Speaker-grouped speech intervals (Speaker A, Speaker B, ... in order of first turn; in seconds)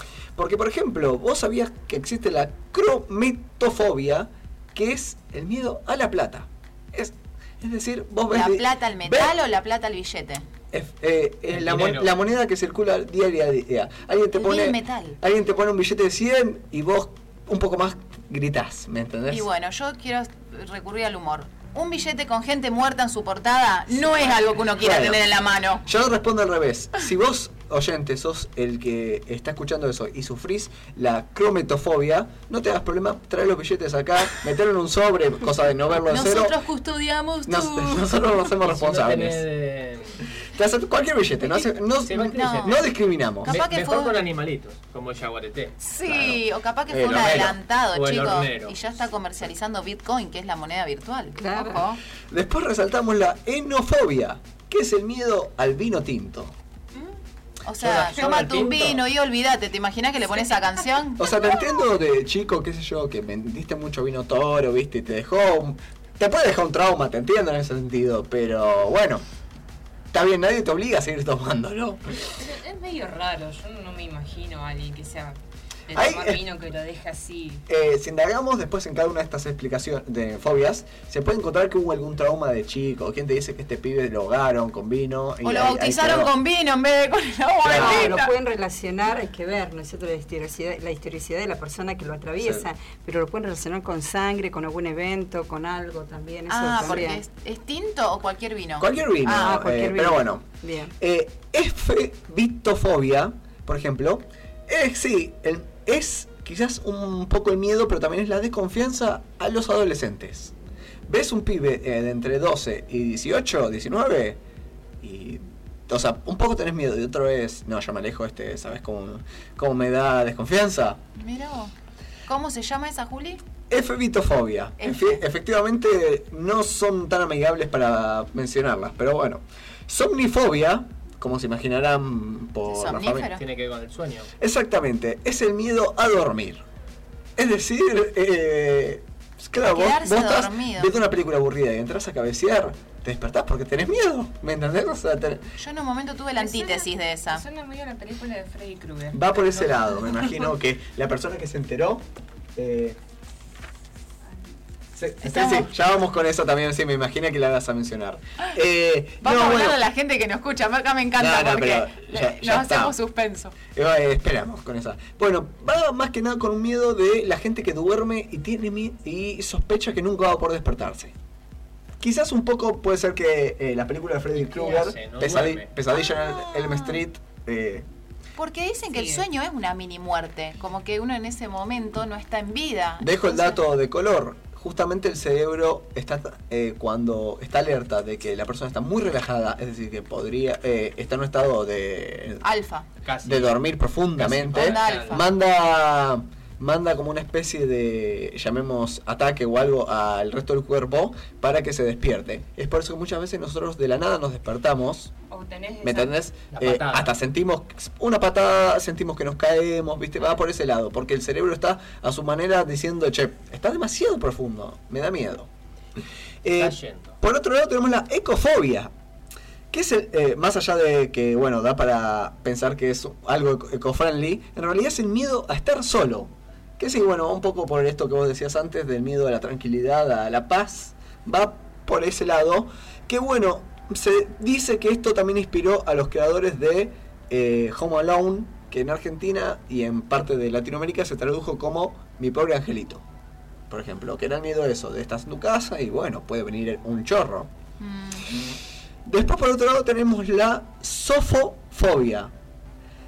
Speaker A: 0.3-9.3, 10.7-19.5, 23.9-25.2, 25.8-36.6, 37.5-39.4, 40.5-43.6, 46.1-47.6, 52.3-56.5, 61.2-69.2, 70.1-72.3, 75.9-76.4, 77.7-86.3, 87.6-88.2, 92.4-92.6, 98.8-100.4, 101.0-110.5, 111.1-114.4, 115.0-121.0, 123.7-133.3, 134.4-136.6, 137.4-145.4, 149.1-153.0, 154.9-159.8, 161.2-163.0, 163.7-171.1, 172.0-177.8, 183.0-192.4, 193.2-205.1, 205.8-215.5, 216.4-218.9, 219.7-243.0, 243.7-247.5, 249.0-252.3
Speaker B: 8.3-10.4, 14.3-15.2, 19.3-25.8, 36.1-38.1, 42.3-42.9, 43.4-44.2, 45.8-52.0, 57.6-61.6, 85.4-88.3, 96.5-99.6, 121.2-121.7, 122.3-123.4, 124.8-125.2, 132.7-133.4, 139.6-140.9, 145.6-147.4, 155.2-155.7, 159.2-163.6, 175.9-177.0, 178.4-183.6, 192.4-192.9, 194.5-195.2, 247.8-248.5
Speaker C: 11.5-12.1, 38.6-40.2, 42.0-42.9, 43.4-45.8, 47.9-48.8, 57.8-59.0, 133.3-134.3, 174.3-175.7, 193.0-193.6, 194.2-195.2, 206.5-207.2, 216.5-217.2
Speaker D: 51.4-51.8, 87.7-97.2, 99.4-100.9
Speaker E: 72.4-77.6, 146.4-150.3, 178.9-179.2, 205.3-206.2